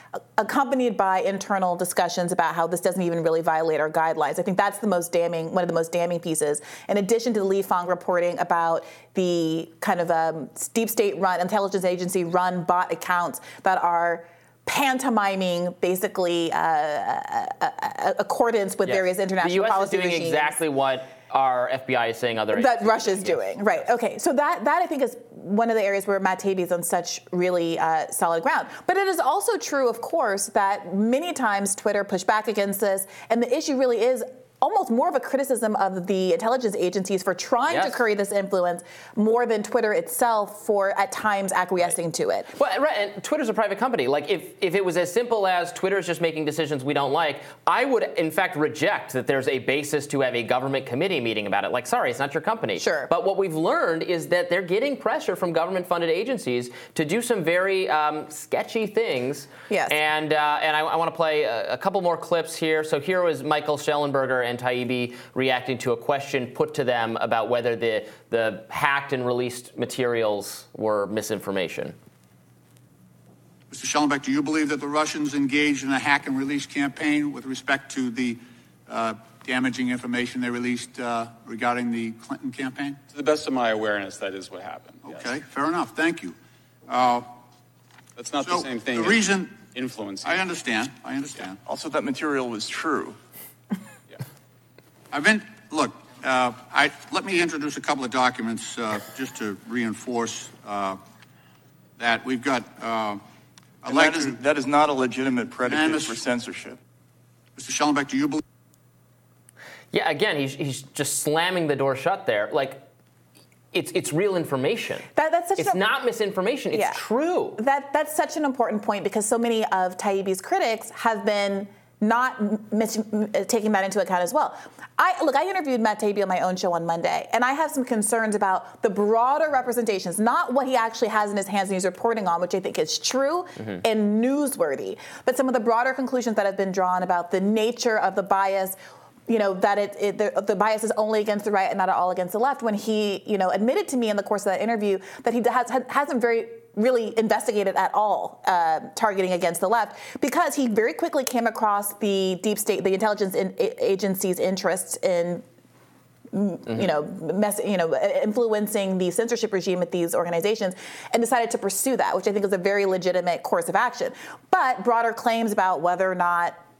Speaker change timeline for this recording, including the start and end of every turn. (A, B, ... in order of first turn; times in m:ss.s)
0:00.4-0:20.6 A
0:18.8-0:23.8 B
0:22.5-0:42.5 A
0:37.7-0:38.0 B
0:42.6-1:12.0 B
0:52.8-0:53.1 A
0:59.7-1:00.0 A
1:13.7-1:23.0 C
1:23.1-1:25.0 D
1:25.0-1:26.4 C
1:26.9-1:27.3 C
1:28.2-1:29.1 D
1:28.3-1:29.7 C
1:29.7-1:30.3 D
1:30.2-1:31.6 C
1:31.6-1:33.2 E
1:35.1-1:41.0 C
1:42.0-1:43.2 C
1:43.8-1:44.4 C
1:43.8-1:46.8 E
1:45.6-1:46.2 C
1:47.6-1:48.4 C
1:49.9-1:52.8 B
1:53.7-1:57.6 B
1:55.1-1:55.8 A
1:56.7-1:57.0 A
1:57.6-2:35.4 A
2:36.3-2:46.6 A